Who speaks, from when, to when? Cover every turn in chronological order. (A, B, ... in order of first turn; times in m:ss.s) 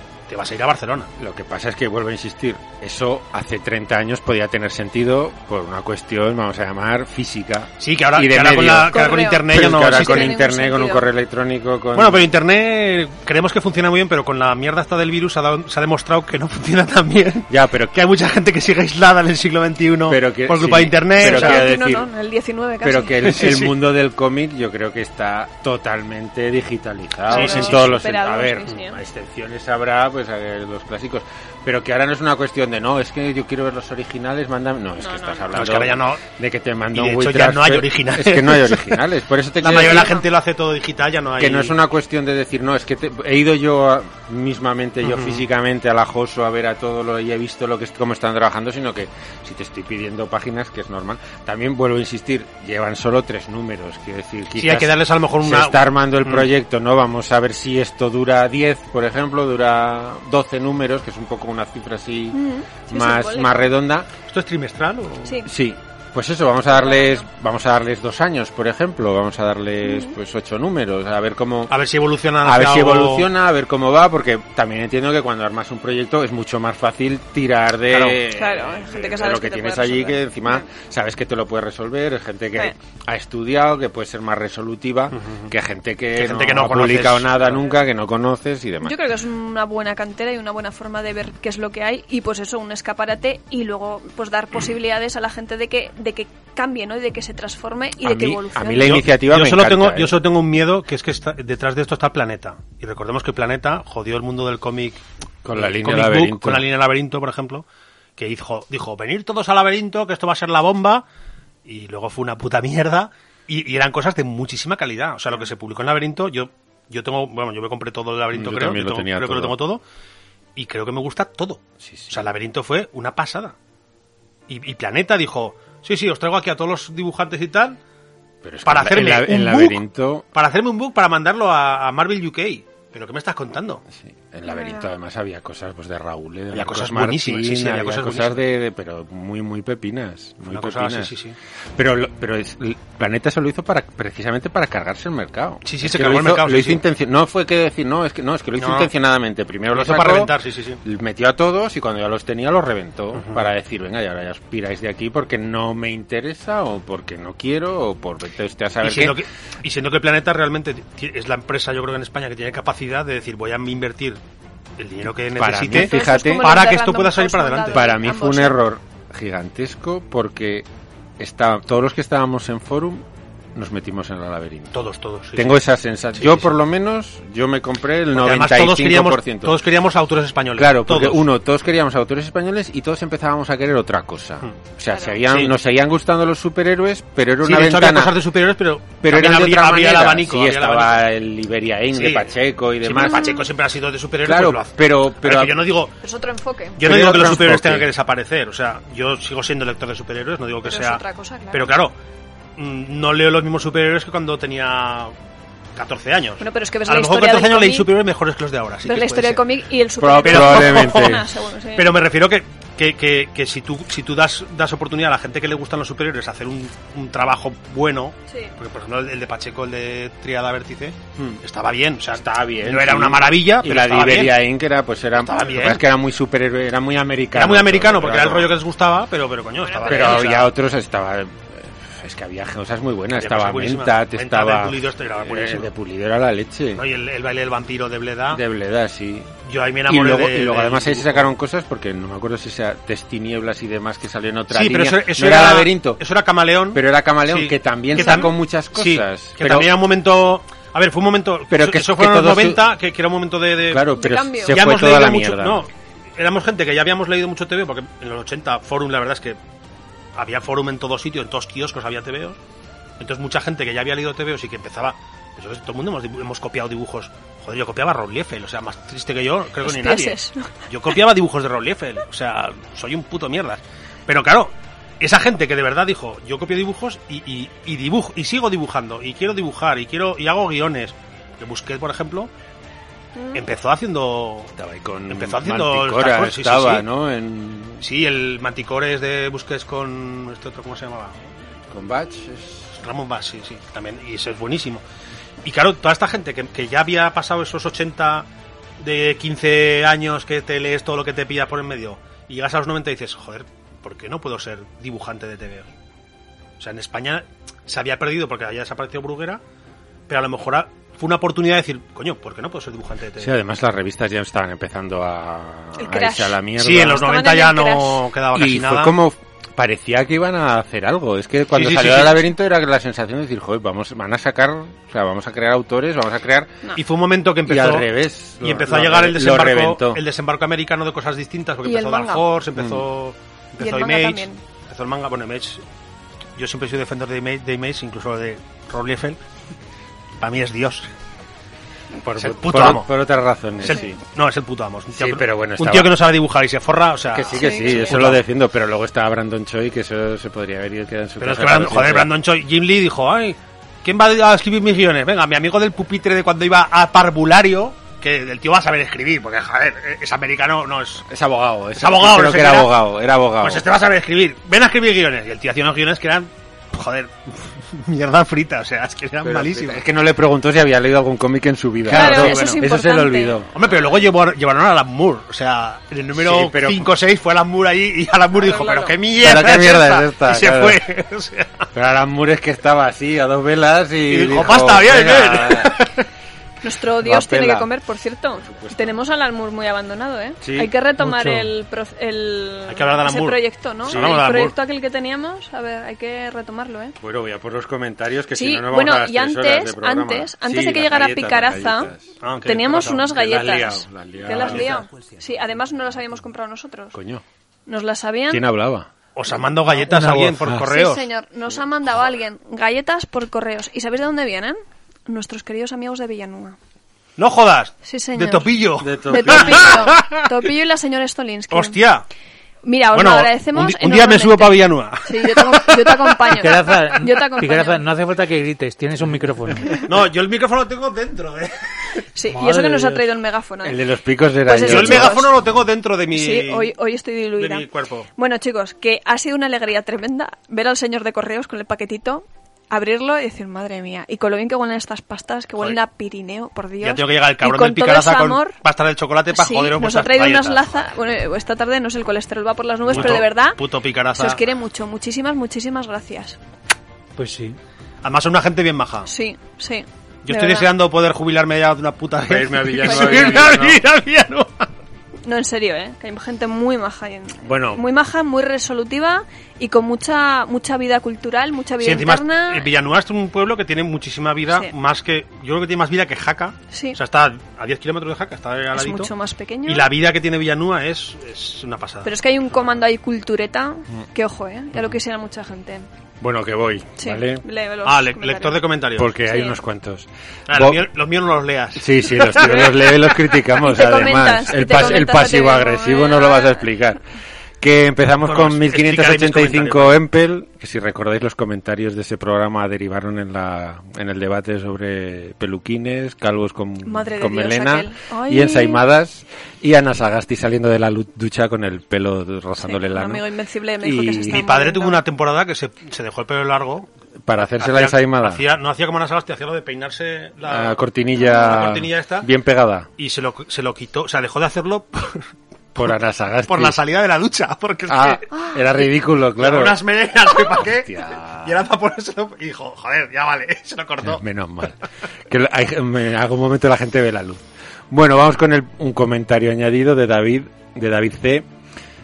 0:00.3-0:01.1 A
0:01.2-0:12.3 B
0:07.8-0:10.3 A
0:08.9-0:11.1 C
0:11.9-0:21.7 A
0:17.5-0:18.0 B
0:20.1-0:22.1 B
0:21.2-0:23.4 C
0:22.8-0:40.2 B
0:23.2-0:23.7 A
0:27.3-0:29.0 C
0:27.3-0:27.9 A
0:35.0-0:35.8 C
0:35.5-0:36.2 A
0:36.9-0:39.0 A
0:39.6-0:41.7 A
0:39.8-0:40.2 C
0:41.4-1:04.1 B
0:45.0-0:45.4 A
0:54.6-0:56.5 A
1:02.3-1:03.7 C
1:04.3-1:05.4 A
1:05.4-1:11.7 B
1:06.7-1:07.2 C
1:09.8-1:10.1 C
1:11.7-1:13.3 A
1:12.4-1:29.0 B
1:17.9-1:18.2 A
1:18.3-1:20.6 C
1:25.1-1:25.5 A
1:26.2-1:27.7 A
1:28.8-1:39.0 C
1:38.0-1:40.2 B
1:38.8-1:45.0 A
1:45.4-1:46.7 B
1:45.5-1:47.6 A
1:48.2-1:51.0 A
1:51.6-1:59.8 A
1:58.3-1:59.6 B
2:00.6-2:03.5 A
2:01.8-2:02.2 B
2:04.5-2:07.8 A
2:08.4-2:10.2 B
2:08.6-2:09.8 A
2:10.3-2:13.8 A
2:13.9-2:21.1 B
2:14.5-2:14.9 C
2:16.5-2:18.4 A
2:20.4-2:21.4 A
2:21.8-2:39.2 B
2:25.6-2:26.8 A
2:28.6-2:28.9 A
2:29.7-2:30.8 A
2:33.1-2:33.4 A
2:38.8-2:44.2 A
2:44.8-2:47.9 A
2:45.4-2:46.6 B
2:45.7-2:48.6 C
2:47.7-2:50.6 B
2:51.2-2:54.7 B
2:54.7-2:55.6 A
2:55.4-2:59.6 B
2:56.1-2:56.5 A
2:58.1-3:01.2 A
3:00.6-3:08.2 B
3:05.2-3:05.5 A
3:07.4-3:11.0 A
3:09.0-3:13.4 B
3:11.9-3:15.9 A
3:13.0-3:13.5 C
3:14.2-3:15.6 B
3:16.0-3:16.8 C
3:16.8-3:21.9 A
3:16.8-3:17.9 B
3:20.6-3:21.8 C
3:22.6-3:25.1 A
3:25.8-3:29.4 A
3:26.4-3:27.9 C
3:28.8-3:32.0 C
3:30.0-3:31.3 B
3:30.2-3:31.2 A
3:31.8-3:44.5 A
3:42.1-3:48.5 B
3:45.2-3:45.8 A
3:47.4-3:50.5 A
3:49.6-3:50.3 C
3:49.8-3:56.8 B
3:53.1-3:55.7 A
3:56.7-3:58.4 A
3:58.3-3:59.3 B
3:59.4-4:01.3 A
3:59.8-4:06.0 B
4:04.5-4:13.9 A
4:06.7-4:09.8 B
4:07.9-4:08.3 C
4:11.5-4:12.7 B
4:13.7-4:15.6 B
4:13.9-4:14.7 C
4:14.5-4:19.4 A
4:20.2-4:22.4 A
4:23.0-4:42.3 A
4:29.6-4:30.5 C
4:43.2-4:43.4 C
4:43.3-4:44.5 A
4:44.6-4:47.8 B
4:45.1-4:46.8 A
4:47.8-4:51.2 A
4:51.7-4:52.8 B
4:52.8-4:54.8 A
4:55.4-4:58.3 A
4:58.8-5:05.7 A
5:06.6-5:09.4 A
5:10.1-5:13.3 A
5:13.2-5:17.1 B
5:15.8-5:18.0 C
5:16.6-5:18.9 A
5:18.3-5:26.6 B
5:21.5-5:22.2 A
5:26.8-5:27.9 A
5:27.4-5:30.0 B
5:28.4-5:35.6 A
5:31.6-5:32.3 C
5:32.6-5:32.8 B
5:33.6-5:34.4 C
5:36.4-5:39.2 A
5:40.2-5:40.9 A
5:41.9-5:44.0 B
5:42.2-5:42.9 A
5:43.6-5:48.2 A
5:43.7-5:43.9 C
5:44.9-5:46.0 B
5:47.1-5:52.1 B
5:47.3-5:48.0 C
5:51.2-6:01.0 A
6:01.1-6:03.6 B
6:01.8-6:02.7 A
6:03.4-6:09.8 A
6:09.2-6:13.5 B
6:11.9-6:12.6 A
6:11.9-6:13.4 C
6:13.5-6:21.7 A
6:16.1-6:16.9 B
6:18.4-6:18.9 C
6:19.2-6:20.8 B
6:21.7-6:25.8 B
6:24.1-6:25.9 A
6:26.6-6:36.9 C
6:27.0-6:27.7 B
6:28.4-6:29.0 B
6:30.4-6:30.7 B
6:31.0-6:31.5 D
6:32.7-6:34.6 A
6:33.9-6:34.2 B
6:37.0-6:42.1 B
6:38.3-6:41.9 C
6:42.2-6:43.2 A
6:42.4-6:47.0 C
6:43.0-6:45.0 B
6:44.3-6:44.8 A
6:46.9-6:47.2 B
6:47.7-6:48.4 C
6:48.3-6:48.9 B
6:49.1-6:51.1 A
6:49.8-6:50.4 D
6:50.6-6:56.6 C
6:57.2-7:00.2 A
6:57.8-6:58.5 C
6:58.8-7:00.0 B
6:59.0-7:01.8 C
7:01.5-7:02.0 A
7:02.6-7:07.8 C
7:02.9-7:06.4 A
7:06.3-7:09.8 D
7:09.8-7:12.0 A
7:12.1-7:13.8 C
7:12.3-7:13.1 D
7:13.6-7:15.3 B
7:14.4-7:15.3 C
7:14.6-7:16.7 A
7:16.1-7:28.6 C
7:17.4-7:18.1 A
7:26.8-7:30.9 A
7:29.3-7:36.4 C
7:32.9-7:34.4 A
7:32.9-7:33.2 B
7:37.2-7:37.6 D
7:38.0-7:39.1 A
7:39.1-7:40.7 C
7:40.2-7:44.7 A
7:42.2-7:43.8 B
7:42.8-7:43.6 C
7:45.3-7:52.7 C
7:47.4-7:47.8 B
7:51.8-7:59.1 A
7:56.7-7:57.0 C
7:58.7-7:59.9 C
7:59.6-8:02.1 A
8:02.0-8:05.9 C
8:06.2-8:07.4 B
8:07.0-8:08.7 C
8:07.8-8:09.1 A
8:08.9-8:10.8 B
8:09.2-8:09.6 C
8:10.5-8:13.2 A
8:11.8-8:17.0 B
8:13.6-8:16.6 C
8:17.6-8:33.2 B
8:18.2-8:20.0 A
8:26.8-8:28.8 C
8:32.6-8:35.0 C
8:33.8-8:34.5 B
8:34.3-8:36.9 A
8:37.3-8:38.4 B
8:37.4-8:42.3 A
8:40.4-8:42.9 B
8:41.3-8:41.7 C
8:43.0-8:45.9 A
8:45.7-8:46.8 B
8:46.5-8:48.3 A
8:47.9-8:49.8 B
8:49.4-8:54.2 A
8:50.5-8:51.6 B
8:54.0-8:54.8 B
8:55.3-9:01.4 B